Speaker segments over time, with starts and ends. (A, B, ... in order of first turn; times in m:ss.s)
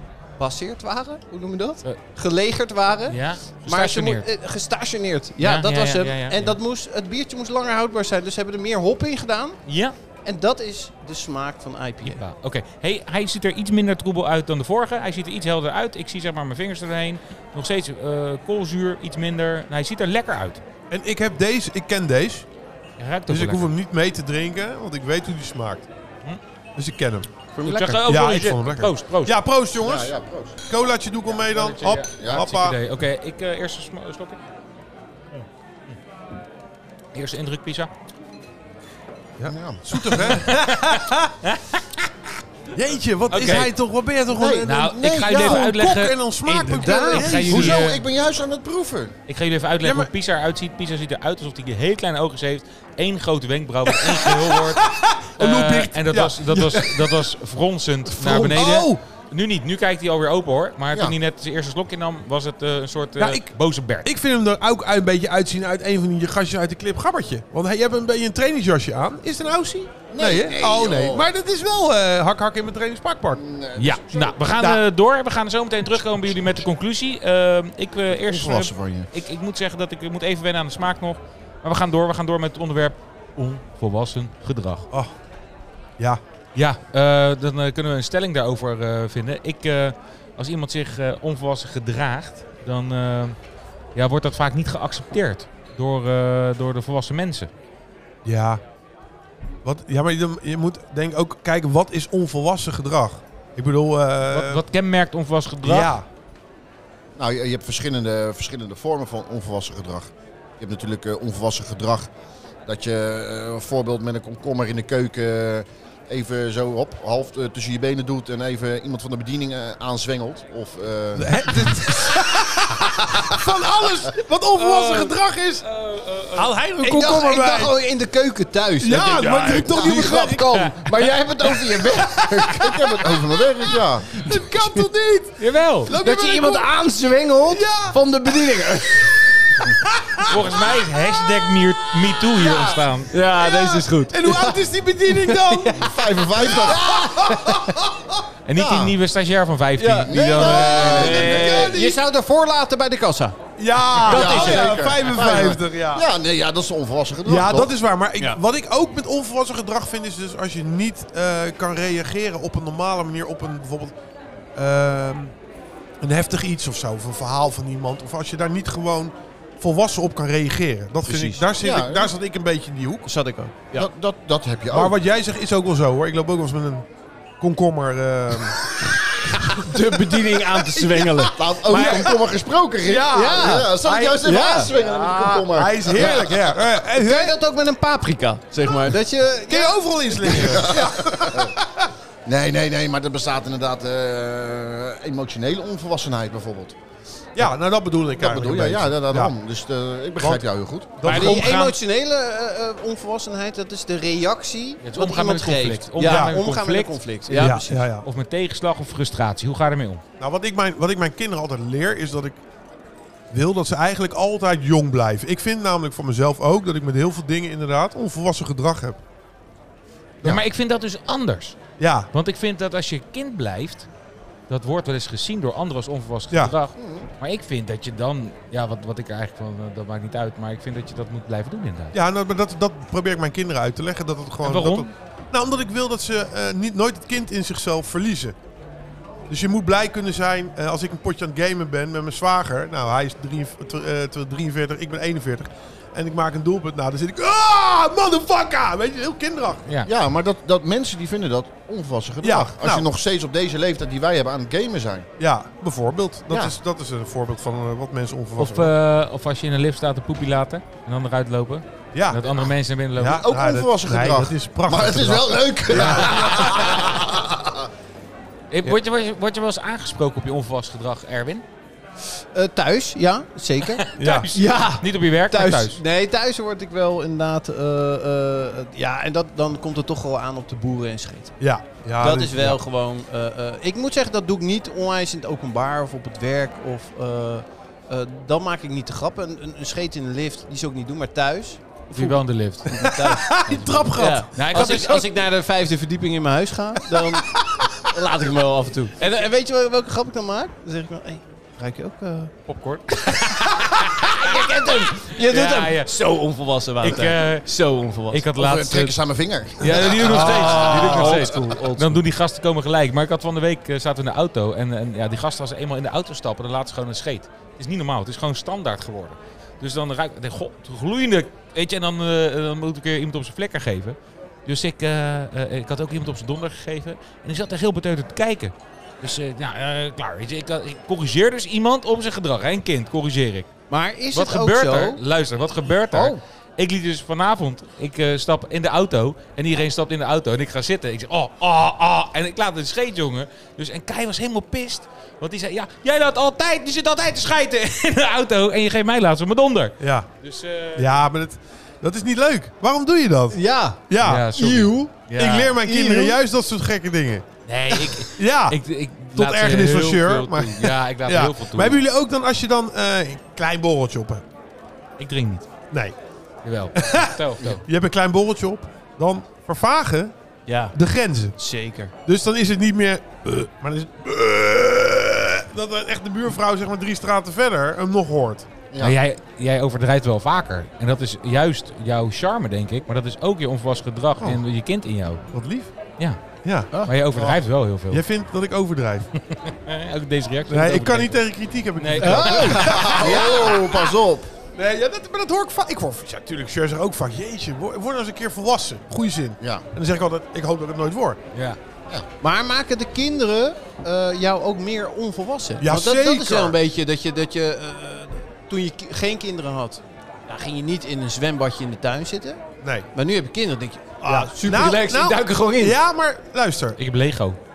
0:00.4-0:09.6 A
0:03.1-0:04.3 B
0:05.4-0:06.6 B
0:09.6-0:09.9 B
0:10.2-0:12.2 A
0:12.0-0:20.6 B
0:20.9-0:22.4 C
0:23.0-0:23.7 B
0:23.3-0:25.9 C
0:26.8-0:27.3 C
0:27.5-0:28.0 A
0:27.6-0:29.3 B
0:28.0-0:32.8 C
0:29.8-0:30.6 D
0:31.3-0:34.4 B
0:32.2-0:32.5 D
0:37.1-0:37.9 B
0:39.4-0:41.3 C
0:39.5-0:40.2 D
0:40.1-0:42.1 B
0:42.7-0:47.8 C
0:43.3-0:43.7 B
0:44.3-0:45.7 D
0:44.6-0:48.0 B
0:46.5-0:47.5 A
0:47.5-0:49.2 D
0:49.3-0:54.8 B
0:49.8-0:50.1 C
0:53.9-0:57.3 C
0:55.4-1:04.1 B
0:58.1-0:59.0 C
1:03.2-1:03.5 C
1:04.0-1:13.4 C
1:10.1-1:11.3 D
1:13.3-1:14.4 D
1:13.8-1:24.9 B
1:18.1-1:19.1 D
1:26.5-1:33.4 B
1:33.9-1:37.5 B
1:38.2-1:38.6 C
1:39.6-1:44.6 C
1:44.3-1:45.9 B
1:45.6-1:46.0 C
1:47.2-1:52.1 D
1:52.6-2:02.1 D
2:01.2-2:05.6 C
2:04.6-2:06.5 B
2:06.4-2:07.8 C
2:06.4-2:13.2 A
2:08.8-2:10.7 C
2:10.0-2:11.0 B
2:11.6-2:16.7 C
2:12.6-2:14.2 D
2:14.1-2:14.8 A
2:15.4-2:15.9 B
2:15.9-2:19.2 A
2:17.5-2:18.0 C
2:19.1-2:22.6 C
2:20.2-2:23.1 B
2:23.1-2:27.7 A
2:23.4-2:28.0 C
2:25.8-2:27.3 D
2:28.4-2:31.3 B
2:28.5-2:29.0 D
2:29.8-2:33.4 A
2:30.0-2:31.8 D
2:30.4-2:32.0 C
2:33.6-2:36.0 C
2:33.9-2:35.4 A
2:34.0-2:37.7 D
2:37.2-2:43.9 C
2:44.6-2:45.3 C
2:46.0-2:53.1 C
2:51.0-2:51.4 A
2:51.6-2:52.1 D
2:53.0-2:53.9 A
2:53.7-2:55.0 D
2:54.7-2:56.8 C
2:57.4-2:58.8 C
2:59.3-3:02.1 A
2:59.4-3:02.3 C
3:01.3-3:06.3 D
3:02.8-3:07.4 C
3:03.1-3:11.0 A
3:09.5-3:11.8 C
3:10.3-3:11.5 D
3:12.2-3:16.8 D
3:17.4-3:19.3 C
3:18.2-3:21.0 D
3:20.2-3:20.4 C
3:21.0-3:21.5 C
3:21.0-3:21.8 B
3:21.0-3:27.9 A
3:24.8-3:30.0 B
3:26.0-3:26.4 C
3:27.3-3:28.0 C
3:30.2-3:32.4 C
3:33.3-3:39.0 C
3:40.2-3:41.6 B
3:41.8-3:42.1 C
3:42.1-3:43.9 B
3:44.5-3:51.9 B
3:46.8-3:47.1 D
3:51.9-3:58.3 C
3:54.4-3:54.9 B
3:59.3-4:09.7 C
4:09.8-4:15.1 D
4:12.2-4:12.8 C
4:15.2-4:18.7 C
4:16.3-4:16.6 D
4:18.4-4:23.2 B
4:21.9-4:22.4 C
4:23.0-4:26.8 C
4:23.1-4:27.7 D
4:28.5-4:31.4 B
4:32.2-4:41.3 A
4:33.7-4:35.8 B
4:34.0-4:34.3 C
4:41.4-4:42.6 C
4:42.0-5:02.5 A
4:51.9-4:52.7 B
4:52.7-4:55.0 C
4:54.3-4:55.1 B
4:57.0-4:57.2 C
5:02.5-5:05.9 B
5:03.1-5:08.3 A
5:06.8-5:07.5 B
5:08.1-5:09.0 B
5:08.4-5:10.9 D
5:09.6-5:33.5 B
5:09.9-5:12.0 A
5:10.0-5:11.3 C
5:33.7-5:35.0 A
5:34.1-5:51.0 B
5:35.9-5:36.2 A
5:49.8-5:50.1 C
5:50.8-5:54.3 C
5:53.3-5:54.9 A
5:54.0-5:55.6 B
5:55.1-5:57.3 C
5:55.6-5:56.2 A
5:57.4-6:01.8 B
5:58.0-5:58.6 C
5:59.1-6:04.2 C
6:05.0-6:05.5 B
6:06.4-6:07.6 B
6:06.8-6:10.1 C
6:10.5-6:10.7 A
6:10.7-6:11.4 C
6:11.4-6:11.9 A
6:12.0-6:18.5 C
6:18.7-6:19.0 D
6:18.8-6:25.2 B
6:25.3-6:25.7 C
6:26.4-6:26.7 C
6:26.7-6:28.0 B
6:27.1-6:27.4 D
6:27.9-6:29.1 C
6:29.2-6:31.2 B
6:30.5-6:33.6 C
6:31.8-6:32.8 B
6:32.0-6:33.8 A
6:32.6-6:34.3 D
6:34.5-6:41.2 C
6:39.4-6:39.6 D
6:41.3-6:41.6 B
6:42.2-6:55.8 A
6:45.6-6:46.5 C
6:52.6-6:52.9 C
6:54.0-6:56.8 C
6:56.8-6:57.4 B